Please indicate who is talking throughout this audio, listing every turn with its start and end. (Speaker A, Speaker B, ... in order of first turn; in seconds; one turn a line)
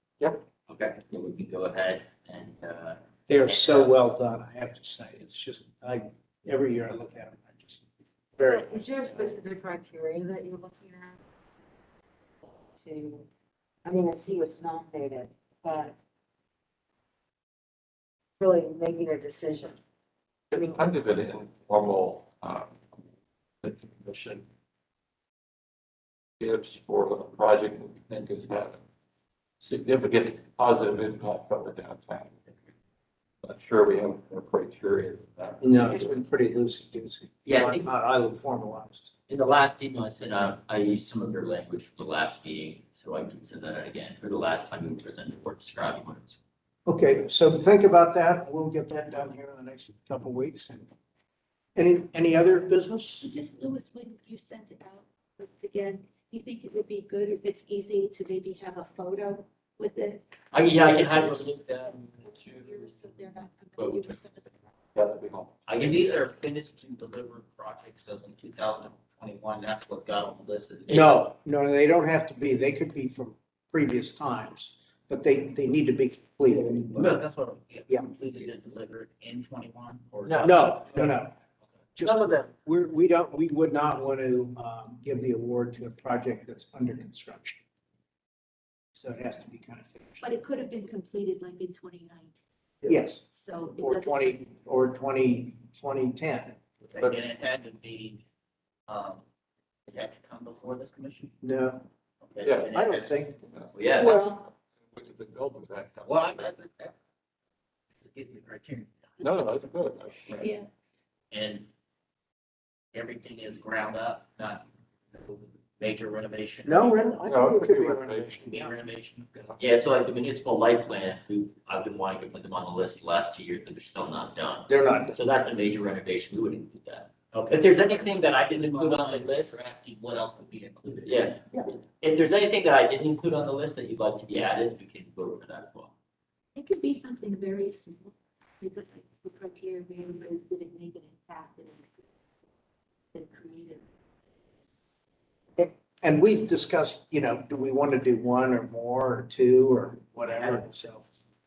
Speaker A: 0.7-3.9
Speaker B: 3.3-7.8
Speaker B: 8.3-9.4
Speaker C: 8.4-11.2
Speaker C: 12.7-13.3
Speaker C: 13.8-15.9
Speaker C: 18.4-19.8
Speaker D: 20.5-22.8
Speaker D: 23.6-24.4
Speaker D: 26.4-28.8
Speaker D: 29.6-32.5
Speaker D: 33.4-36.0
Speaker B: 35.6-39.1
Speaker A: 37.4-37.9
Speaker A: 39.3-46.4
Speaker B: 46.9-50.9
Speaker B: 51.8-53.3
Speaker E: 53.2-64.5
Speaker A: 60.5-64.3
Speaker D: 64.9-65.5
Speaker F: 65.7-71.2
Speaker A: 65.7-66.2
Speaker B: 70.9-77.2
Speaker F: 76.5-80.9
Speaker A: 80.2-80.7
Speaker B: 80.4-81.3
Speaker B: 82.0-87.6
Speaker A: 82.0-82.5
Speaker B: 88.9-90.4
Speaker E: 90.2-92.4
Speaker B: 92.8-93.2
Speaker E: 93.2-94.4
Speaker B: 93.8-96.6
Speaker F: 96.9-98.2
Speaker F: 98.9-99.2
Speaker F: 99.9-101.3
Speaker B: 101.4-101.8
Speaker F: 102.2-103.2
Speaker D: 102.4-102.8
Speaker B: 102.7-103.4
Speaker D: 103.3-106.5
Speaker A: 103.7-104.2
Speaker B: 104.0-104.4
Speaker F: 106.0-106.9
Speaker F: 108.0-109.2
Speaker D: 109.2-110.5
Speaker E: 110.4-110.7
Speaker F: 111.3-111.7
Speaker F: 112.9-116.9
Speaker B: 116.6-118.7
Speaker D: 117.2-118.7
Speaker F: 118.5-119.3
Speaker D: 119.3-119.6
Speaker A: 119.6-129.6
Speaker B: 124.7-125.2
Speaker F: 127.5-131.3
Speaker A: 131.0-135.9
Speaker E: 136.5-142.0
Speaker E: 143.1-143.8
Speaker B: 145.6-151.1